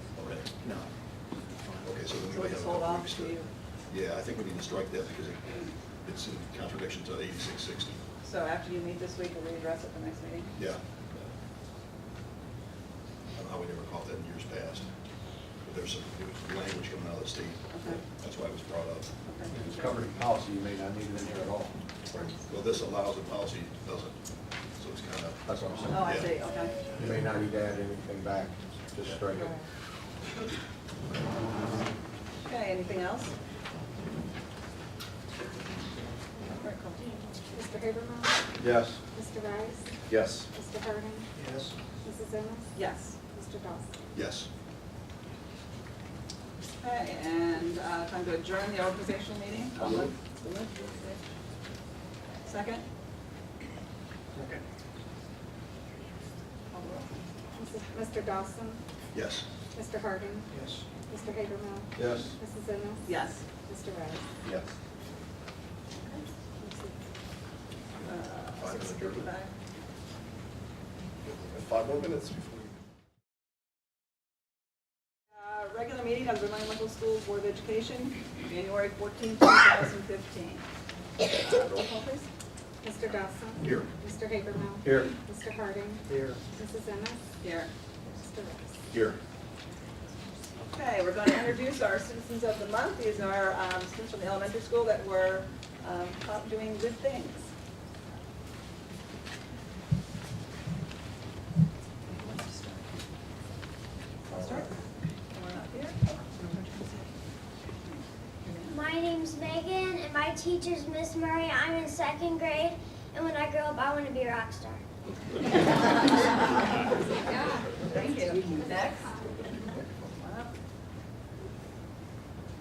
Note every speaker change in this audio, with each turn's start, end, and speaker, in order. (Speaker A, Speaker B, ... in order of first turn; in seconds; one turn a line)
Speaker A: 0.1-0.6
Speaker A: 1.8-3.4
Speaker B: 2.3-3.5
Speaker A: 3.9-8.0
Speaker B: 8.2-10.5
Speaker A: 10.6-11.3
Speaker A: 13.3-14.9
Speaker A: 15.6-19.1
Speaker B: 17.7-18.0
Speaker B: 19.2-20.0
Speaker C: 19.5-22.4
Speaker A: 22.5-24.1
Speaker A: 24.8-26.3
Speaker C: 25.4-26.1
Speaker B: 25.9-26.8
Speaker C: 26.9-29.5
Speaker B: 32.4-33.3
Speaker B: 36.4-37.2
Speaker D: 37.5-38.5
Speaker C: 38.6-39.0
Speaker D: 39.1-41.3
Speaker C: 40.1-40.5
Speaker D: 42.0-42.7
Speaker B: 42.7-43.2
Speaker D: 43.3-43.9
Speaker A: 44.1-44.5
Speaker B: 46.8-51.2
Speaker B: 52.4-52.8
Speaker B: 56.7-57.1
Speaker D: 57.5-58.8
Speaker A: 59.1-59.5
Speaker D: 59.7-64.3
Speaker C: 62.0-62.3
Speaker B: 63.0-63.4
Speaker D: 66.6-66.9
Speaker B: 68.0-69.5
Speaker A: 68.6-69.3
Speaker C: 71.5-72.5
Speaker B: 75.3-80.7
Speaker B: 81.2-82.3
Speaker D: 82.8-87.2
Speaker C: 84.8-85.1
Speaker C: 86.1-86.4
Speaker B: 87.4-87.7
Speaker D: 88.1-88.9
Speaker B: 90.6-97.5
Speaker B: 102.1-102.8
Speaker B: 104.3-104.7
Speaker B: 105.3-107.1
Speaker B: 108.4-108.8
Speaker E: 108.7-114.8
Speaker B: 117.8-119.2
Speaker B: 120.1-120.5